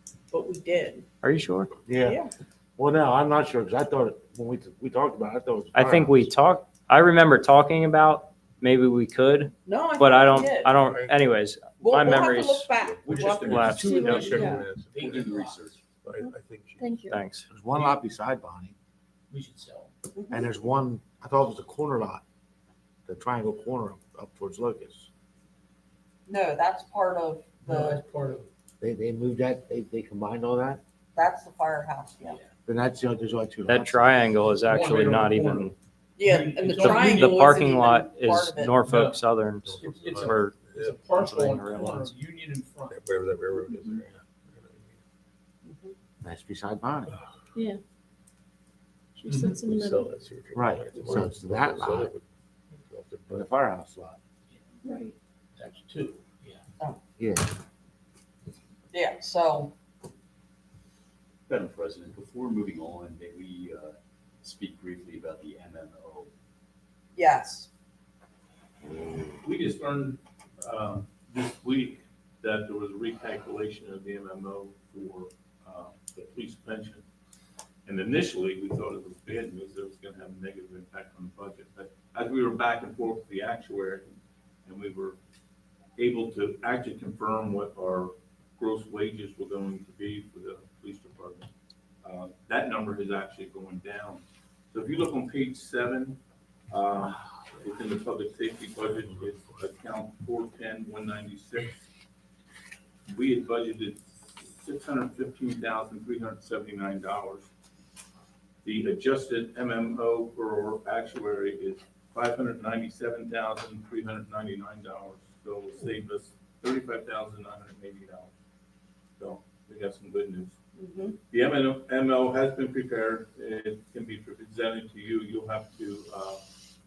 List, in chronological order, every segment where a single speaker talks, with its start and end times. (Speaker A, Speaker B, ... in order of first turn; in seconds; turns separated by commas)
Speaker A: 0.3-1.1, Speaker B: 1.2-1.7, Speaker C: 1.9-2.2, Speaker A: 2.0-2.3, Speaker C: 2.8-6.3, Speaker B: 5.8-12.7, Speaker A: 9.7-10.7, Speaker D: 10.6-11.2, Speaker A: 11.8-13.8, Speaker E: 13.1-15.7, Speaker D: 13.2-15.0, Speaker B: 13.5-13.9, Speaker F: 13.8-14.6, Speaker G: 15.0-15.8, Speaker D: 16.0-16.9, Speaker F: 16.8-17.3, Speaker B: 17.1-17.4, Speaker C: 17.5-18.8, Speaker E: 19.3-19.9, Speaker A: 20.1-20.4, Speaker C: 20.3-22.2, Speaker C: 23.1-25.1, Speaker A: 26.3-28.0, Speaker E: 27.6-28.5, Speaker C: 28.8-30.8, Speaker A: 31.1-32.4, Speaker C: 32.7-34.2, Speaker B: 33.7-35.7, Speaker E: 34.5-37.5, Speaker A: 36.2-38.8, Speaker B: 36.8-39.6, Speaker E: 38.8-42.9, Speaker D: 39.6-41.7, Speaker B: 41.6-42.1, Speaker D: 42.9-45.0, Speaker A: 45.6-45.9, Speaker C: 46.2-47.1, Speaker F: 49.2-50.1, Speaker D: 49.7-52.2, Speaker C: 50.5-52.1, Speaker D: 52.9-53.2, Speaker C: 53.3-54.2, Speaker E: 54.5-54.9, Speaker F: 54.8-55.1, Speaker E: 55.6-56.6, Speaker C: 57.2-57.5, Speaker A: 58.9-59.7, Speaker G: 61.5-66.3, Speaker A: 67.2-67.7, Speaker C: 68.8-69.3, Speaker H: 69.4-77.0, Speaker H: 77.8-84.1, Speaker H: 84.7-85.2, Speaker H: 86.0-91.5, Speaker H: 92.0-94.2, Speaker H: 94.7-96.2, Speaker H: 96.7-101.8, Speaker H: 103.1-107.5, Speaker H: 108.6-118.3, Speaker H: 119.2-120.5, Speaker A: 120.8-121.2, Speaker H: 121.3-126.4